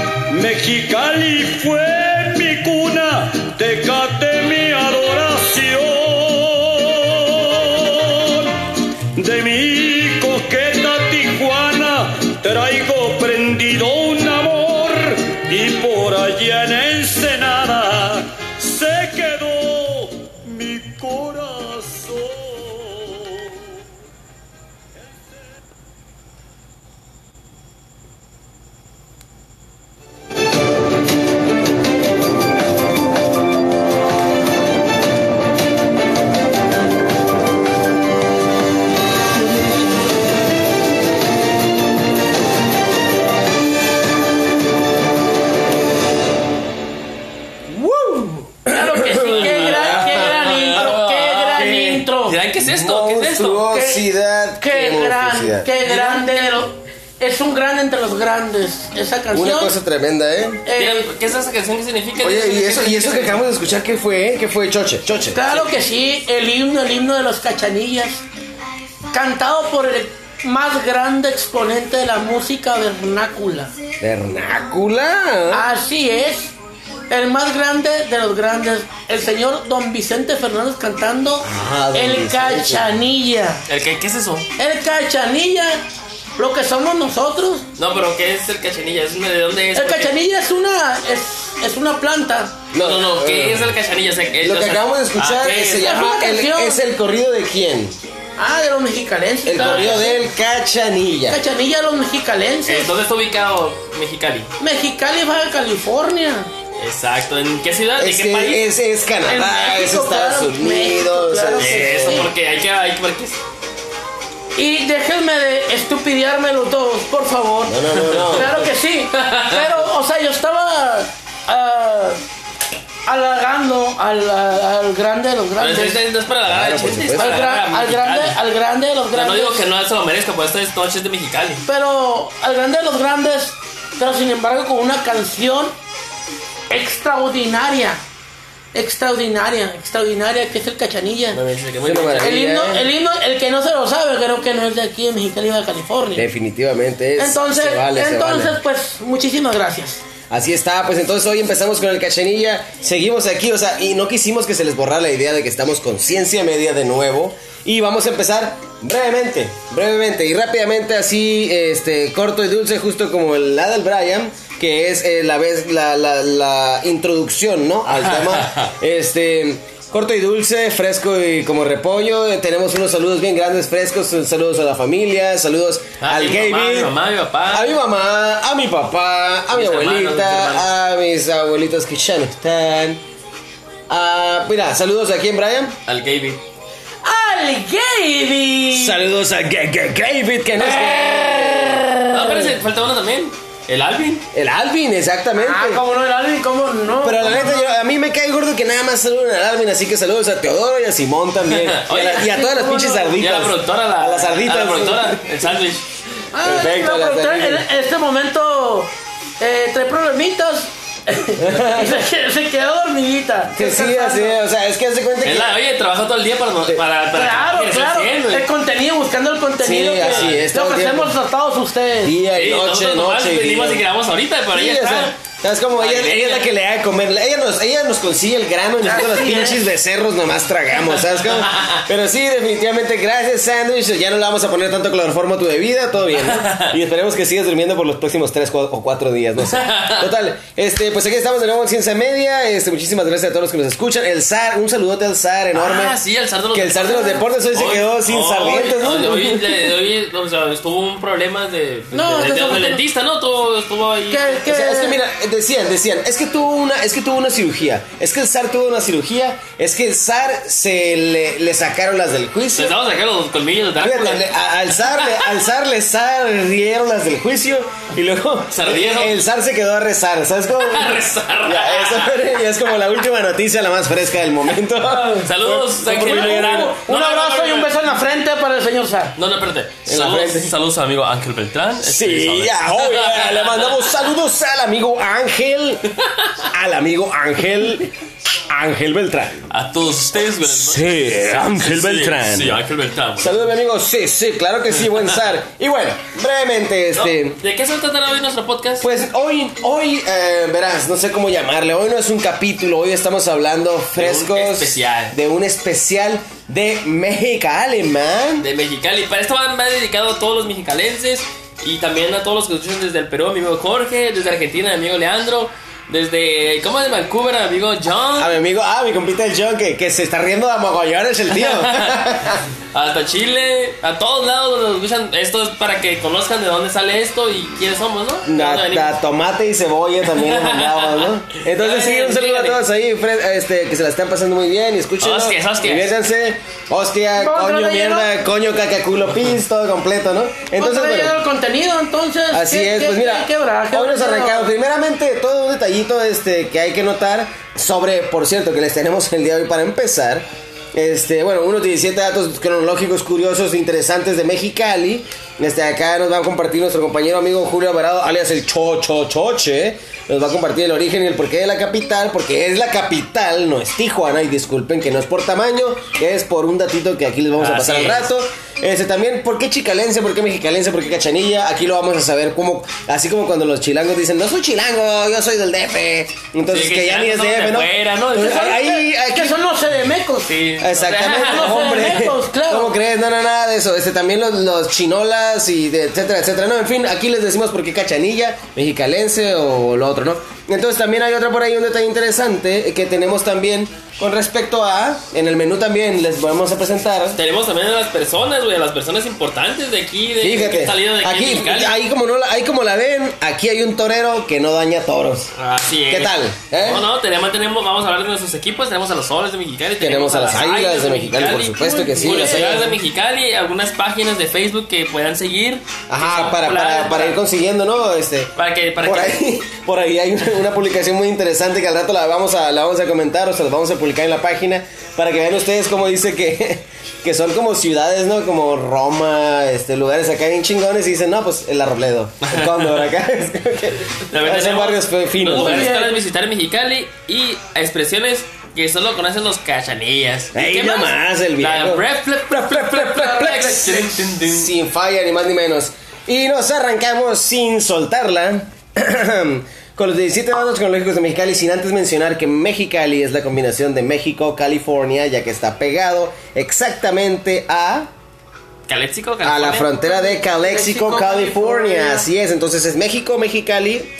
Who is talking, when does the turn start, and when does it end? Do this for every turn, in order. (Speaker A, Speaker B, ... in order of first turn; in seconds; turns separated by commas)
Speaker A: 0.3-23.7, Speaker A: 24.9-25.4, Speaker B: 47.7-50.9, Speaker C: 48.7-52.4, Speaker D: 49.2-53.6, Speaker B: 51.5-52.0, Speaker B: 52.6-56.3, Speaker C: 53.6-54.0, Speaker C: 54.6-59.7, Speaker B: 59.3-60.6, Speaker C: 60.6-61.1, Speaker D: 60.8-63.4, Speaker B: 62.2-65.4, Speaker C: 65.3-68.2, Speaker C: 69.1-73.7, Speaker B: 74.0-75.6, Speaker C: 75.5-76.5, Speaker C: 77.1-83.7, Speaker B: 81.4-82.9, Speaker D: 83.7-84.5, Speaker C: 84.6-85.8, Speaker C: 86.4-87.7, Speaker D: 87.8-90.1, Speaker C: 89.7-92.6, Speaker B: 92.7-93.7, Speaker D: 92.8-95.9, Speaker B: 94.4-98.0, Speaker C: 95.8-96.8, Speaker C: 98.4-100.2, Speaker B: 99.4-101.4, Speaker D: 99.6-100.0, Speaker C: 101.3-102.9, Speaker D: 102.7-104.5, Speaker C: 104.6-106.5, Speaker D: 106.8-108.6, Speaker B: 108.0-112.3, Speaker C: 109.2-112.3, Speaker D: 111.6-113.4, Speaker C: 114.5-122.2, Speaker B: 117.6-118.6, Speaker D: 118.1-118.5, Speaker D: 119.2-119.7, Speaker C: 123.0-126.0, Speaker D: 125.6-128.4, Speaker B: 126.5-127.4, Speaker C: 127.2-129.6, Speaker D: 129.1-131.6, Speaker C: 131.6-135.7, Speaker C: 136.7-138.0, Speaker C: 138.7-141.4, Speaker D: 141.3-142.4, Speaker B: 141.8-142.8, Speaker C: 142.2-146.3, Speaker B: 146.1-148.6, Speaker C: 147.2-150.0, Speaker B: 150.3-176.9, Speaker D: 167.9-168.7, Speaker D: 176.0-177.8, Speaker B: 177.5-183.0, Speaker D: 179.5-180.7, Speaker B: 183.9-185.8, Speaker D: 185.8-186.4, Speaker C: 187.0-189.0, Speaker B: 188.7-192.0, Speaker C: 190.8-192.2, Speaker D: 192.1-194.2, Speaker B: 194.3-195.8, Speaker C: 195.3-197.7, Speaker B: 197.0-205.4, Speaker D: 201.5-202.3, Speaker C: 202.2-203.2, Speaker D: 203.2-205.8, Speaker C: 206.3-214.4, Speaker B: 206.4-207.6, Speaker B: 211.4-212.0, Speaker B: 213.5-215.6, Speaker D: 215.2-218.5, Speaker C: 217.1-222.2, Speaker B: 219.6-221.1, Speaker D: 219.9-220.4, Speaker B: 222.0-223.8, Speaker D: 222.3-225.2, Speaker B: 224.5-246.0, Speaker D: 225.8-226.5, Speaker C: 228.8-229.6, Speaker D: 231.4-231.8, Speaker D: 236.2-236.7, Speaker D: 239.4-240.1, Speaker D: 245.5-254.4, Speaker B: 246.5-249.6, Speaker C: 251.9-252.8, Speaker C: 254.1-255.0, Speaker B: 254.5-262.7, Speaker D: 262.5-264.2, Speaker B: 263.8-276.7, Speaker D: 264.9-265.3, Speaker D: 268.5-269.2, Speaker D: 270.6-272.4, Speaker D: 275.1-277.8, Speaker C: 276.0-279.1, Speaker D: 279.2-284.1, Speaker B: 279.9-280.5, Speaker B: 281.8-285.8, Speaker B: 286.5-287.9, Speaker B: 288.5-289.5, Speaker D: 289.5-293.5, Speaker B: 290.4-292.6, Speaker B: 293.2-297.4, Speaker D: 296.9-298.8, Speaker B: 298.8-308.5, Speaker D: 303.9-305.1, Speaker D: 308.4-318.3, Speaker B: 318.2-322.4, Speaker D: 321.3-328.9, Speaker B: 328.2-341.2, Speaker D: 330.0-332.6, Speaker D: 335.0-335.9, Speaker C: 337.1-338.1, Speaker C: 340.6-344.5, Speaker B: 342.3-379.4, Speaker D: 367.4-368.1, Speaker D: 376.5-378.5, Speaker C: 378.1-380.3, Speaker D: 380.3-381.9, Speaker B: 380.6-397.2, Speaker C: 381.1-382.7, Speaker D: 397.1-401.7, Speaker B: 400.2-405.3, Speaker D: 405.4-417.2, Speaker B: 405.9-406.9, Speaker B: 409.8-412.7, Speaker C: 411.6-412.7, Speaker B: 415.9-418.3, Speaker D: 418.4-419.2, Speaker B: 418.8-435.8, Speaker D: 432.2-432.9, Speaker D: 434.1-444.5, Speaker C: 435.2-436.0, Speaker B: 440.3-457.9, Speaker C: 442.9-443.9, Speaker D: 458.7-459.7, Speaker B: 459.2-463.9, Speaker C: 459.8-462.1